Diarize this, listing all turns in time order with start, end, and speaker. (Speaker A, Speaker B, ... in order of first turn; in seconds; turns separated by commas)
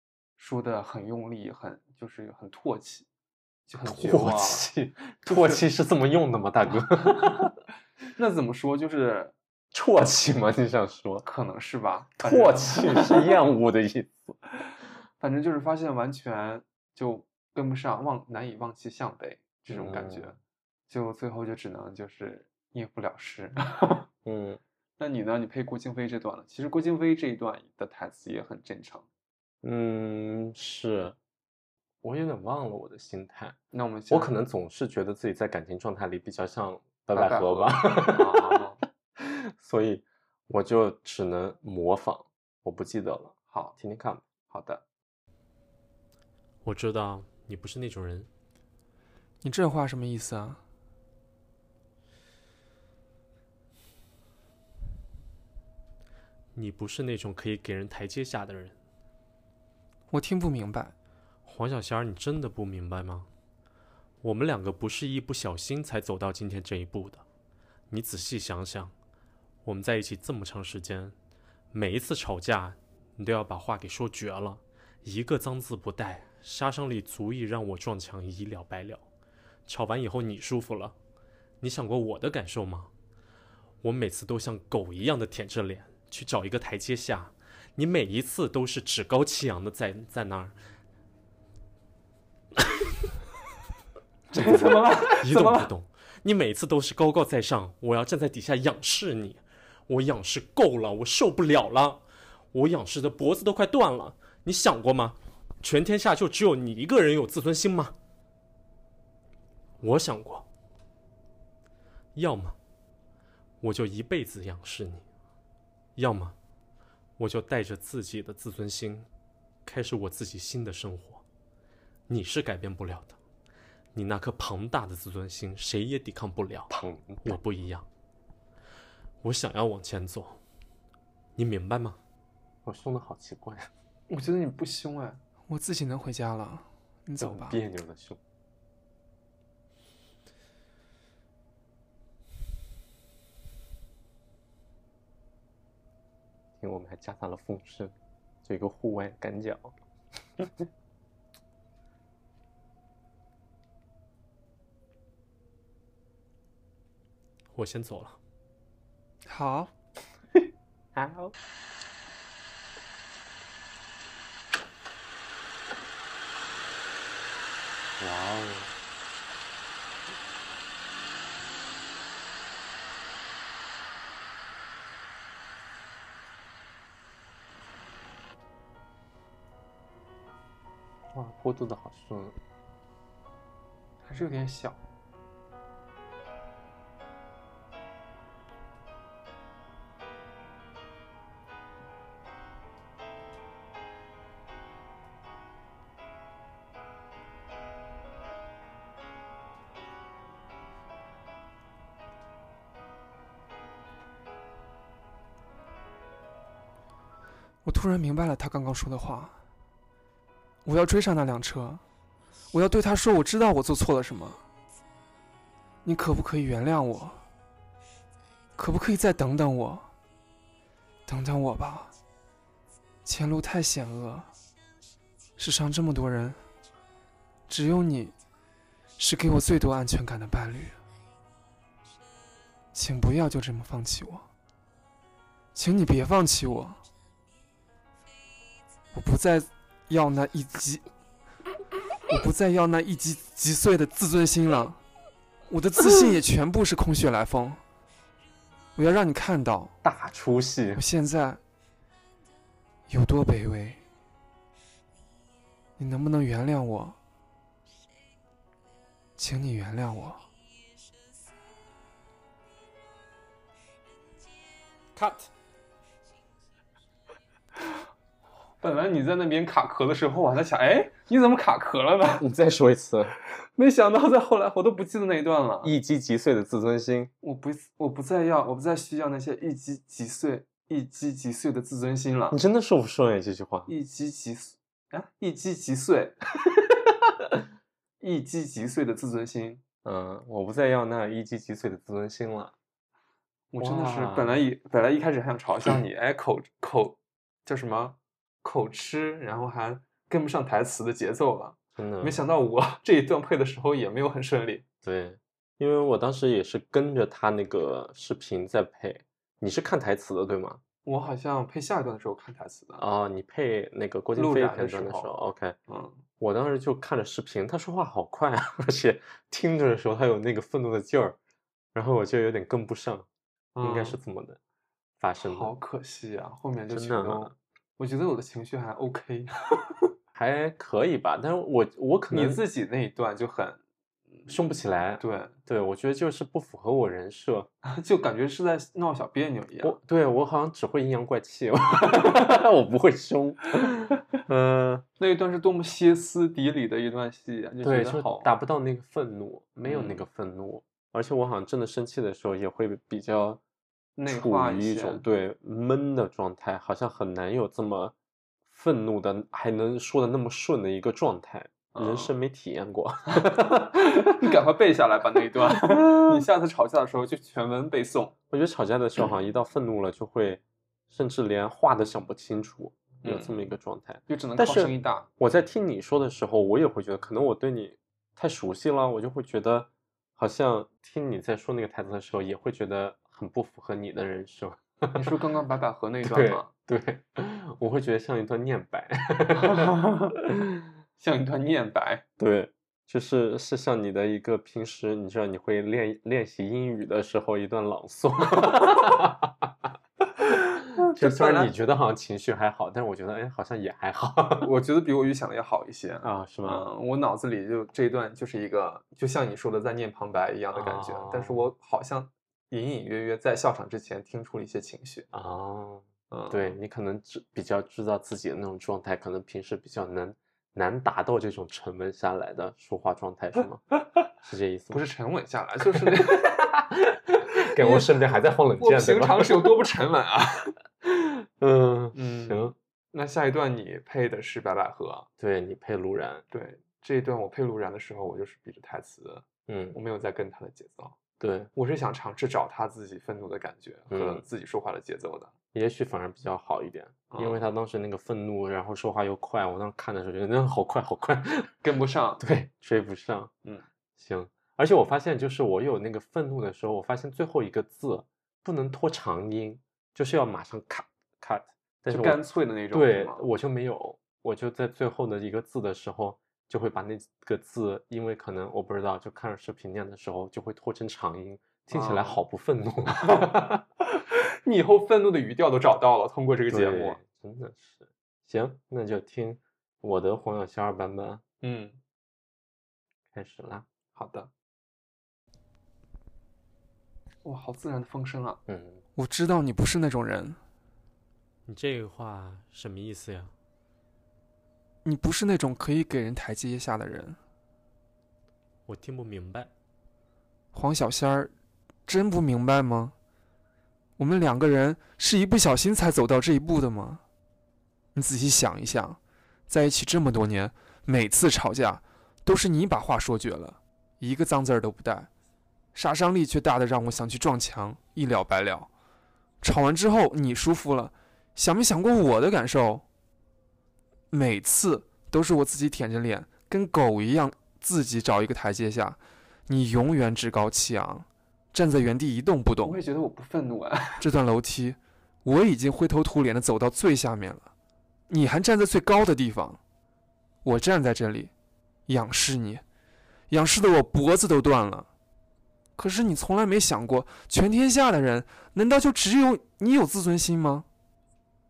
Speaker A: 0.4-3.1, Speaker A: 3.7-4.7, Speaker B: 3.9-7.5, Speaker A: 5.2-5.6, Speaker A: 6.9-7.5, Speaker A: 8.2-9.3, Speaker B: 9.7-11.3, Speaker A: 11.2-13.4, Speaker B: 12.2-14.4, Speaker A: 15.2-24.1, Speaker B: 19.7-20.4, Speaker B: 24.2-24.6, Speaker A: 25.0-29.1, Speaker B: 29.6-31.2, Speaker B: 32.0-33.6, Speaker A: 33.7-34.4, Speaker B: 34.1-38.6, Speaker A: 37.1-38.8, Speaker B: 39.2-44.2, Speaker A: 43.5-43.8, Speaker A: 44.5-44.8, Speaker B: 46.6-48.3, Speaker C: 46.8-47.9, Speaker D: 49.4-50.6, Speaker C: 56.5-58.8, Speaker D: 60.1-60.9, Speaker C: 61.5-63.3, Speaker C: 64.2-67.2, Speaker C: 67.9-68.9, Speaker C: 69.7-71.2, Speaker C: 71.7-79.0, Speaker C: 79.7-80.9, Speaker C: 81.6-82.9, Speaker C: 83.8-90.5, Speaker A: 94.3-95.7, Speaker B: 94.4-94.8, Speaker C: 95.2-97.8, Speaker B: 96.2-100.0, Speaker C: 99.9-102.0, Speaker B: 100.9-102.0, Speaker C: 102.5-107.9, Speaker B: 104.0-105.2, Speaker C: 109.8-110.4, Speaker B: 112.2-112.5, Speaker C: 112.2-112.5, Speaker C: 113.6-114.8, Speaker B: 114.6-115.0, Speaker B: 116.0-116.3, Speaker C: 116.0-116.3, Speaker C: 117.2-119.1, Speaker C: 119.7-121.2, Speaker C: 122.1-123.2, Speaker C: 124.0-126.7, Speaker B: 126.7-127.8, Speaker C: 127.3-127.8, Speaker C: 129.2-130.4, Speaker C: 131.4-132.0, Speaker B: 132.7-133.7, Speaker A: 134.1-135.2, Speaker D: 135.5-137.6, Speaker B: 137.2-138.2, Speaker B: 146.6-149.7, Speaker C: 157.6-158.2, Speaker D: 159.3-159.7, Speaker B: 160.9-161.3, Speaker B: 168.0-168.7, Speaker B: 181.1-182.4, Speaker A: 184.0-184.8, Speaker D: 207.7-209.4, Speaker D: 210.7-211.8, Speaker D: 212.5-214.4, Speaker D: 215.8-217.2, Speaker D: 218.6-219.9, Speaker D: 221.1-221.9, Speaker D: 223.1-224.3, Speaker D: 225.4-226.4, Speaker D: 227.5-228.2, Speaker D: 229.0-230.8, Speaker D: 232.7-234.3, Speaker D: 235.6-236.8, Speaker D: 238.9-240.8, Speaker D: 242.1-244.8, Speaker D: 245.5-247.6, Speaker D: 248.8-249.8, Speaker B: 249.8-250.8, Speaker D: 250.8-251.4, Speaker D: 252.9-253.8, Speaker D: 255.8-257.0, Speaker D: 259.2-260.2, Speaker B: 265.0-265.3, Speaker A: 268.6-272.3, Speaker B: 272.2-273.1, Speaker A: 273.6-275.7, Speaker B: 275.6-277.1, Speaker A: 277.2-282.4, Speaker B: 282.3-283.7, Speaker A: 283.7-286.2, Speaker A: 288.0-289.6, Speaker B: 289.8-292.5, Speaker A: 293.5-304.6, Speaker B: 293.6-294.4, Speaker B: 301.8-302.2, Speaker B: 304.8-310.6, Speaker A: 310.9-312.8, Speaker B: 312.8-315.6, Speaker A: 314.1-315.1, Speaker A: 315.7-316.0, Speaker B: 316.2-321.2, Speaker B: 321.8-323.1, Speaker A: 323.6-324.0, Speaker B: 323.6-324.4, Speaker B: 325.0-325.5, Speaker A: 325.2-329.7, Speaker B: 326.7-327.3, Speaker B: 330.1-332.4, Speaker A: 332.1-333.6, Speaker B: 334.3-337.5, Speaker A: 335.0-335.4, Speaker A: 337.6-339.8, Speaker B: 339.6-344.9, Speaker A: 345.0-348.3, Speaker B: 347.6-353.4, Speaker A: 349.6-350.0, Speaker A: 354.0-355.0, Speaker B: 354.1-357.9, Speaker B: 358.5-364.3, Speaker A: 361.7-362.1, Speaker A: 363.8-368.1, Speaker B: 365.5-366.2, Speaker B: 368.3-385.1, Speaker A: 373.0-373.5, Speaker A: 374.1-375.1, Speaker A: 384.9-386.5, Speaker B: 386.0-389.7, Speaker A: 389.3-390.2, Speaker A: 391.0-392.0, Speaker B: 392.2-399.5, Speaker A: 400.8-401.5, Speaker B: 400.8-404.5, Speaker A: 404.4-415.1, Speaker B: 406.0-406.7, Speaker B: 410.5-411.5, Speaker B: 415.1-423.6, Speaker A: 416.1-416.6, Speaker B: 424.2-424.8, Speaker A: 424.7-426.4, Speaker B: 425.8-429.6, Speaker A: 427.6-428.0, Speaker A: 428.6-430.5, Speaker B: 430.8-432.6, Speaker A: 431.9-435.1, Speaker B: 435.2-436.2, Speaker A: 436.3-441.0, Speaker B: 439.5-439.8, Speaker B: 441.2-441.5, Speaker A: 441.6-445.3, Speaker B: 443.9-444.2, Speaker B: 445.5-451.5, Speaker A: 447.1-447.5, Speaker A: 451.6-452.2, Speaker B: 452.2-453.3, Speaker B: 454.0-473.6, Speaker A: 461.9-463.3, Speaker A: 471.7-472.2, Speaker A: 474.0-477.0, Speaker B: 476.5-481.2, Speaker A: 481.4-481.8, Speaker B: 483.1-483.7, Speaker A: 483.9-484.3, Speaker A: 487.2-488.4, Speaker B: 488.5-488.8, Speaker D: 489.0-490.4, Speaker B: 491.5-493.3, Speaker C: 491.7-492.4, Speaker D: 494.9-497.2, Speaker B: 498.7-499.5, Speaker C: 498.7-499.5, Speaker D: 500.5-501.3, Speaker D: 501.9-502.9, Speaker D: 504.0-507.0, Speaker D: 507.9-515.1, Speaker D: 515.8-518.7, Speaker D: 519.4-522.8, Speaker D: 524.1-532.8, Speaker A: 532.6-534.0, Speaker D: 534.0-537.5, Speaker D: 538.1-539.6, Speaker D: 540.4-541.3, Speaker D: 541.9-542.6, Speaker D: 543.3-544.9, Speaker D: 545.8-550.7